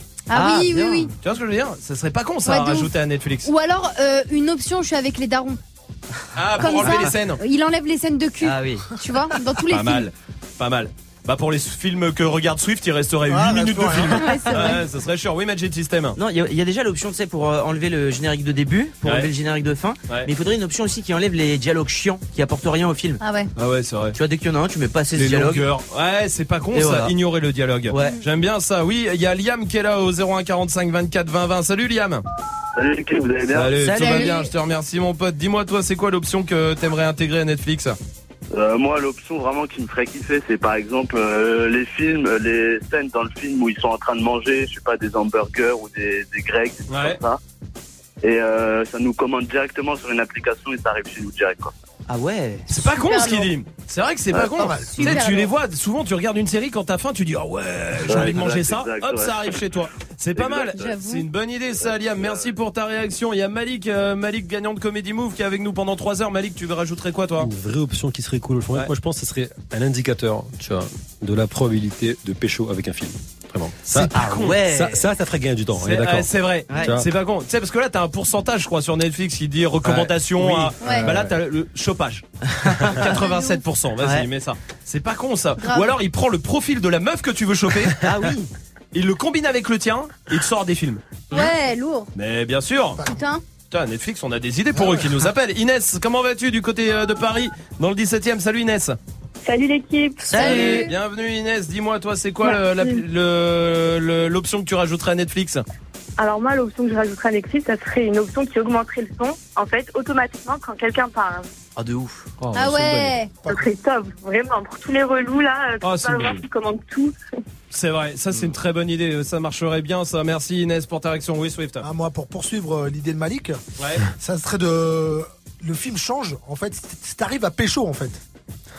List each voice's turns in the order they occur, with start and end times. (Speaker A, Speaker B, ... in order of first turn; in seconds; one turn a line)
Speaker A: 0.3-1.1
Speaker B: 0.3-1.1
Speaker C: 1.2-3.5
Speaker A: 2.5-2.9
Speaker A: 3.4-5.6
Speaker C: 6.3-7.4
Speaker A: 6.6-10.1
Speaker B: 6.6-7.1
Speaker B: 8.4-8.8
Speaker C: 9.7-16.2
Speaker D: 13.3-14.2
Speaker A: 14.2-14.8
Speaker B: 16.1-23.2
Speaker C: 19.0-19.3
Speaker A: 23.2-23.5
Speaker C: 23.6-24.2
Speaker B: 24.1-25.7
Speaker C: 25.1-32.2
Speaker B: 26.7-27.1
Speaker B: 27.9-28.1
Speaker E: 32.8-33.7
Speaker C: 33.5-38.0
Speaker B: 33.8-34.3
Speaker A: 34.0-34.5
Speaker E: 38.5-47.4
Speaker C: 46.9-47.2
Speaker E: 48.2-51.7
Speaker B: 52.1-52.6
Speaker C: 52.7-67.5
Speaker A: 52.9-53.5
Speaker D: 54.6-55.2
Speaker A: 54.8-55.5
Speaker E: 58.0-59.6
Speaker E: 60.4-60.7
Speaker A: 60.7-61.2
Speaker F: 67.4-77.1
Speaker B: 74.1-75.0
Speaker C: 75.8-88.0
Speaker B: 76.7-77.0
Speaker F: 79.8-81.3
Speaker A: 80.8-81.1
Speaker B: 82.7-83.2
Speaker A: 83.2-83.6
Speaker B: 84.0-84.3
Speaker A: 85.6-85.9
Speaker B: 88.0-88.5
Speaker C: 88.9-91.0
Speaker A: 91.3-92.1
Speaker C: 92.1-93.0
Speaker A: 93.0-93.4
Speaker C: 93.7-99.0
Speaker G: 99.4-100.4
Speaker B: 100.2-100.9
Speaker A: 100.4-100.9
Speaker C: 100.4-105.6
Speaker G: 102.4-103.0
Speaker G: 106.2-111.5
Speaker B: 111.8-112.2
Speaker A: 112.5-113.3
Speaker G: 113.5-117.1
Speaker C: 115.8-116.4
Speaker C: 117.7-121.8
Speaker D: 121.8-123.6
Speaker D: 124.2-128.2